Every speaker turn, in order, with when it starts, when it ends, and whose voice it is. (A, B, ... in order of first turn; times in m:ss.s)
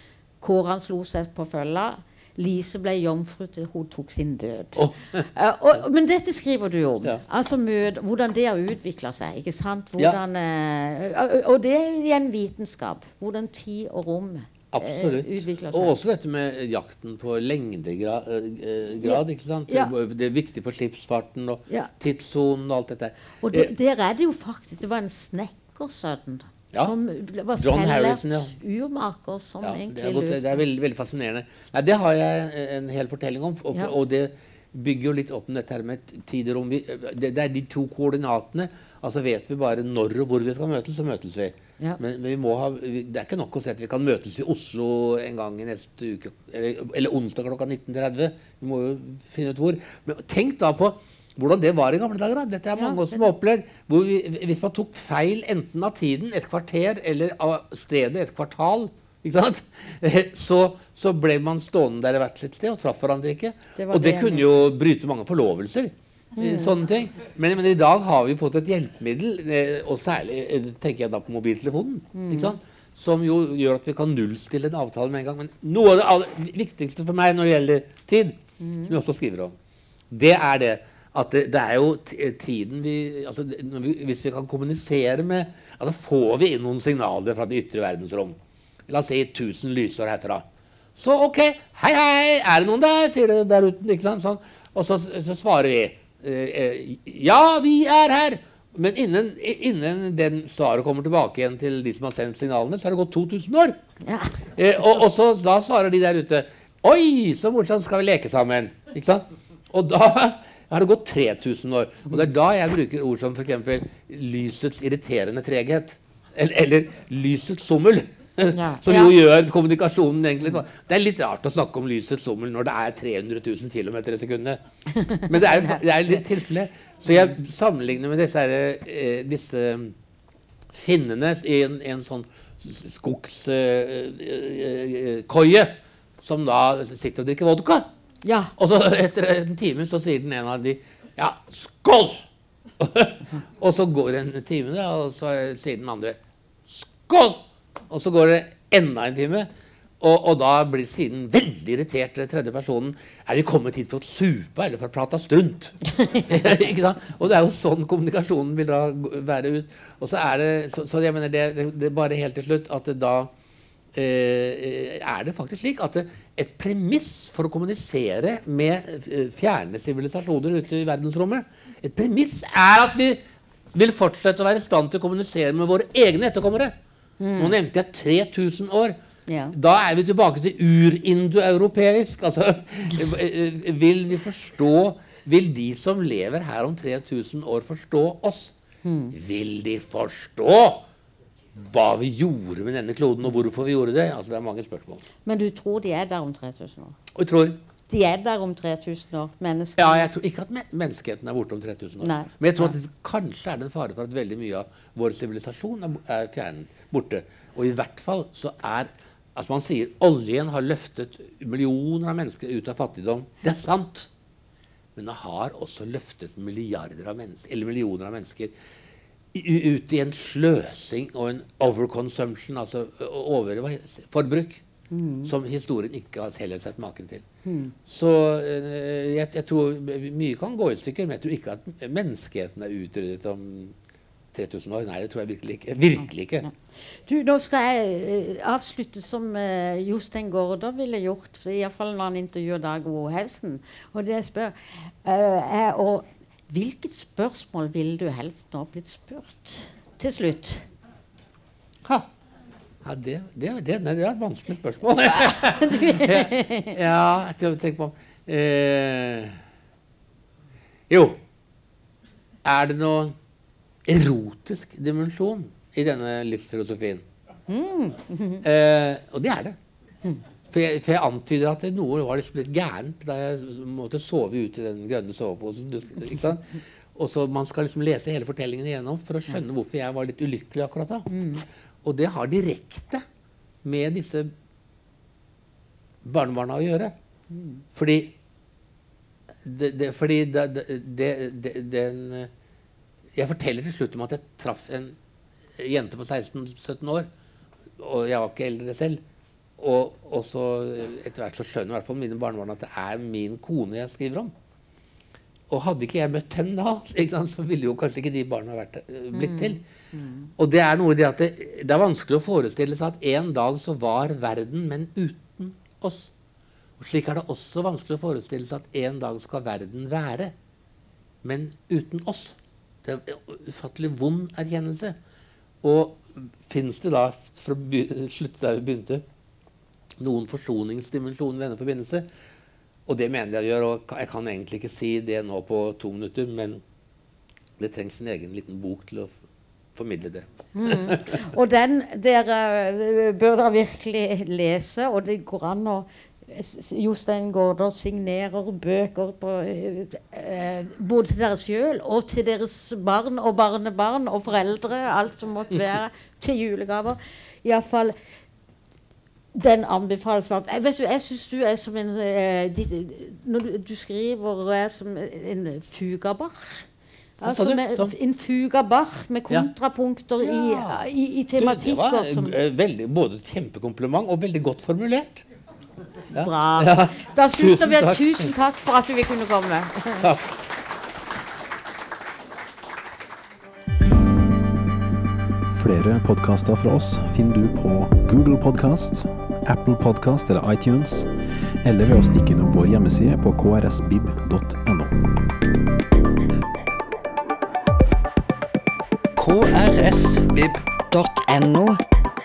0:00.4-0:16.0 A
0:04.8-0:05.2 B
0:14.7-0:23.7 B
0:19.0-0:19.9 A
0:23.4-0:30.6 A
0:27.6-0:28.6 B
0:29.6-1:19.6 B
0:52.8-0:53.3 A
1:03.8-1:04.5 A
1:06.4-1:06.8 A
1:12.1-1:12.6 A
1:18.6-1:18.9 A
1:20.1-1:28.4 B
1:28.9-1:30.4 B
1:31.0-1:43.8 B
1:44.0-1:44.4 A
1:44.5-2:04.6 B
1:58.5-1:59.2 A
2:05.0-2:05.8 A
2:05.3-2:09.9 B
2:10.7-2:17.9 B
2:18.2-2:18.5 A
2:18.6-2:22.2 B
2:22.8-2:26.2 B
2:26.7-2:29.5 B
2:30.0-2:43.3 B
2:43.9-2:53.2 B
2:53.7-2:56.7 B
2:57.2-2:57.6 A
2:57.4-2:59.0 B
2:59.3-2:59.5 A
2:59.5-3:08.5 B
3:08.8-3:09.2 A
3:09.1-3:10.8 B
3:11.6-3:15.0 B
3:15.2-3:17.0 A
3:17.1-3:17.6 B
3:17.9-3:20.1 A
3:19.8-3:34.1 B
3:22.0-3:22.7 A
3:35.0-3:38.5 B
3:39.3-3:44.6 B
3:44.9-3:45.3 A
3:45.2-3:47.2 B
3:47.4-3:47.8 A
3:47.8-3:53.8 B
3:54.3-3:56.5 B
3:56.4-4:10.6 A
4:12.8-4:19.4 B
4:15.2-4:16.8 A
4:20.9-4:21.2 B
4:22.4-4:23.2 B
4:23.9-4:27.0 B
4:27.5-4:28.4 A
4:28.4-4:29.6 B
4:30.5-4:41.1 B
4:41.1-4:41.4 A
4:41.8-4:43.0 B
4:43.6-4:44.3 B
4:46.0-4:47.0 B
4:47.3-4:47.6 A
4:47.8-4:48.1 B
4:49.4-4:52.3 B
4:53.2-4:55.0 B
4:55.6-4:57.1 B
4:57.8-4:59.0 B
4:59.6-5:04.3 B
5:05.5-5:09.6 B
5:09.1-5:10.3 A
5:10.4-5:16.1 B
5:16.8-5:20.3 B
5:21.2-5:25.0 B
5:25.6-5:29.0 B
5:30.0-5:32.1 B
5:32.9-5:36.6 B
5:37.6-5:39.2 B
5:39.8-5:41.2 B
5:40.5-5:58.0 A
5:59.3-6:06.7 A
6:07.2-6:12.4 A
6:07.2-6:07.9 B
6:10.2-6:10.8 B
6:11.4-6:15.2 B
6:16.1-6:18.3 B
6:16.1-6:20.1 A
6:20.0-6:20.3 B
6:25.5-6:31.1 C
6:31.6-6:35.1 C
6:39.2-6:41.8 D